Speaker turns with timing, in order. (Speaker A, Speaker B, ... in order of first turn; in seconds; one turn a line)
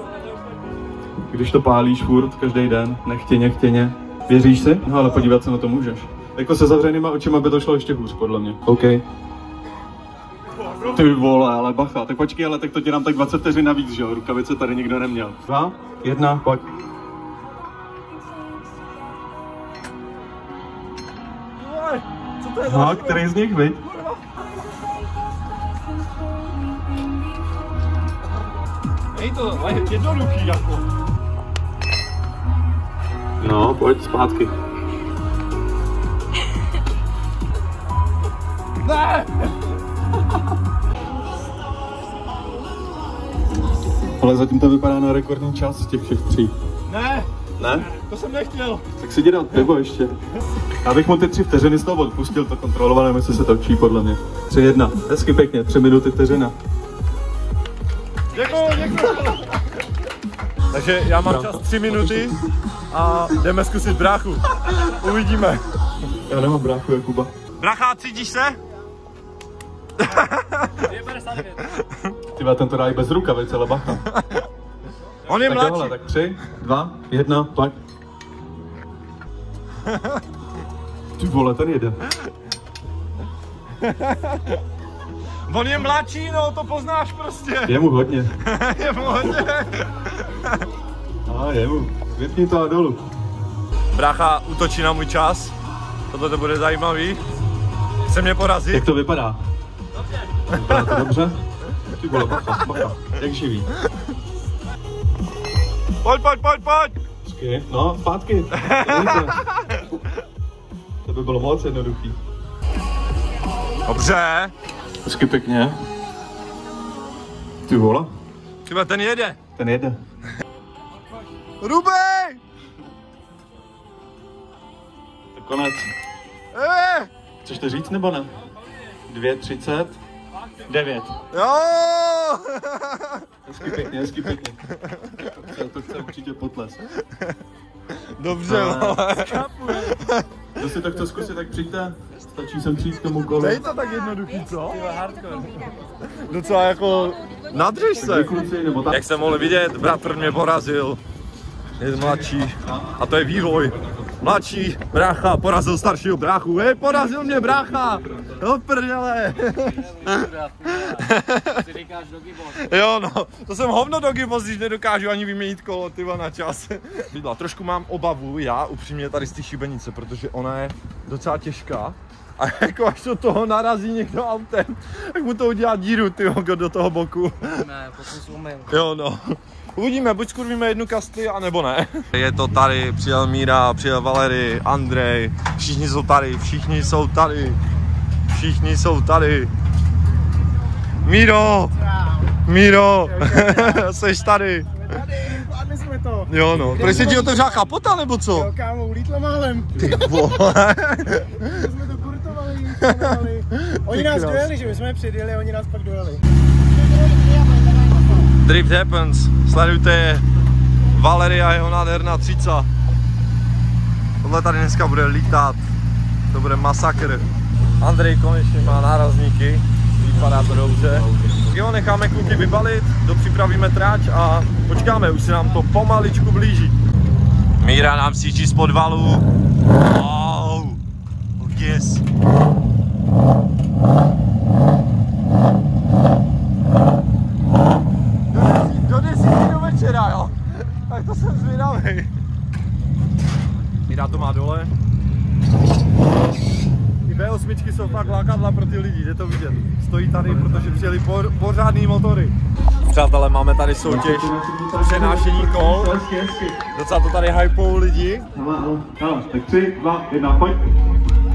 Speaker A: 1.3-9.0
Speaker A: 10.8-16.7
Speaker B: 21.6-24.2
Speaker A: 22.6-23.8
Speaker B: 29.1-30.9
Speaker A: 33.4-34.5
Speaker B: 38.8-39.5
Speaker A: 44.2-46.5
Speaker B: 46.9-47.3
Speaker A: 47.6-47.9
Speaker B: 47.8-48.8
Speaker A: 49.0-50.1
Speaker A: 50.8-56.5
Speaker B: 58.3-59.5
Speaker B: 60.7-62.4
Speaker A: 61.2-62.4
Speaker B: 62.9-65.6
Speaker A: 66.3-67.3
Speaker B: 67.6-68.6
Speaker B: 70.0-71.0
Speaker C: 70.9-71.6
Speaker B: 71.6-72.1
Speaker A: 72.3-74.0
Speaker B: 74.1-74.5
Speaker B: 75.3-76.0
Speaker A: 75.3-77.8
Speaker B: 79.8-80.2
Speaker A: 81.2-82.0
Speaker B: 83.8-84.6
Speaker B: 85.5-87.8
Speaker A: 87.7-88.3
Speaker B: 88.4-90.7
Speaker A: 91.3-93.0
Speaker B: 93.9-95.5
Speaker B: 96.1-97.2
Speaker B: 98.1-98.9
Speaker A: 98.7-99.4
Speaker B: 100.5-101.1
Speaker A: 100.5-101.4
Speaker A: 102.0-103.7
Speaker B: 106.0-106.9
Speaker A: 107.2-109.4
Speaker B: 108.5-109.8
Speaker A: 111.0-112.2
Speaker B: 113.8-114.5
Speaker A: 115.0-115.8
Speaker A: 117.6-118.1
Speaker B: 118.7-119.4
Speaker A: 119.5-120.0
Speaker B: 121.6-122.4
Speaker A: 125.3-125.9
Speaker B: 126.5-127.1
Speaker A: 127.4-128.3
Speaker A: 129.1-130.0
Speaker A: 130.7-131.2
Speaker B: 131.3-133.2
Speaker A: 133.4-134.6
Speaker B: 134.7-135.3
Speaker A: 135.2-136.8
Speaker B: 137.9-140.5
Speaker A: 138.4-139.1
Speaker C: 139.2-140.0
Speaker A: 140.6-143.7
Speaker B: 143.4-145.3
Speaker C: 144.8-145.5
Speaker B: 146.0-151.0
Speaker A: 147.9-149.5
Speaker B: 151.8-161.6
Speaker A: 151.9-152.9
Speaker A: 153.5-154.1
Speaker A: 157.5-158.4
Speaker C: 159.7-162.7
Speaker B: 162.5-177.7
Speaker C: 177.5-178.8
Speaker B: 178.7-187.6
Speaker B: 188.3-189.5
Speaker B: 191.0-191.7
Speaker D: 191.8-192.3
Speaker B: 192.4-194.7
Speaker D: 193.0-193.9
Speaker D: 194.8-197.7
Speaker B: 196.3-198.5
Speaker D: 198.3-200.4
Speaker B: 199.8-201.7
Speaker D: 201.5-206.2
Speaker B: 202.8-204.5
Speaker D: 206.7-208.3
Speaker B: 208.4-210.2
Speaker B: 210.9-212.7
Speaker B: 214.2-215.7
Speaker B: 216.3-217.3
Speaker B: 217.8-226.8
Speaker A: 220.2-221.5
Speaker B: 227.6-229.2
Speaker B: 229.8-230.8
Speaker B: 231.4-232.0
Speaker B: 238.3-242.1
Speaker B: 243.9-244.7
Speaker B: 247.0-256.0
Speaker A: 250.4-250.6
Speaker A: 253.8-256.6
Speaker B: 256.7-258.3
Speaker A: 258.3-260.7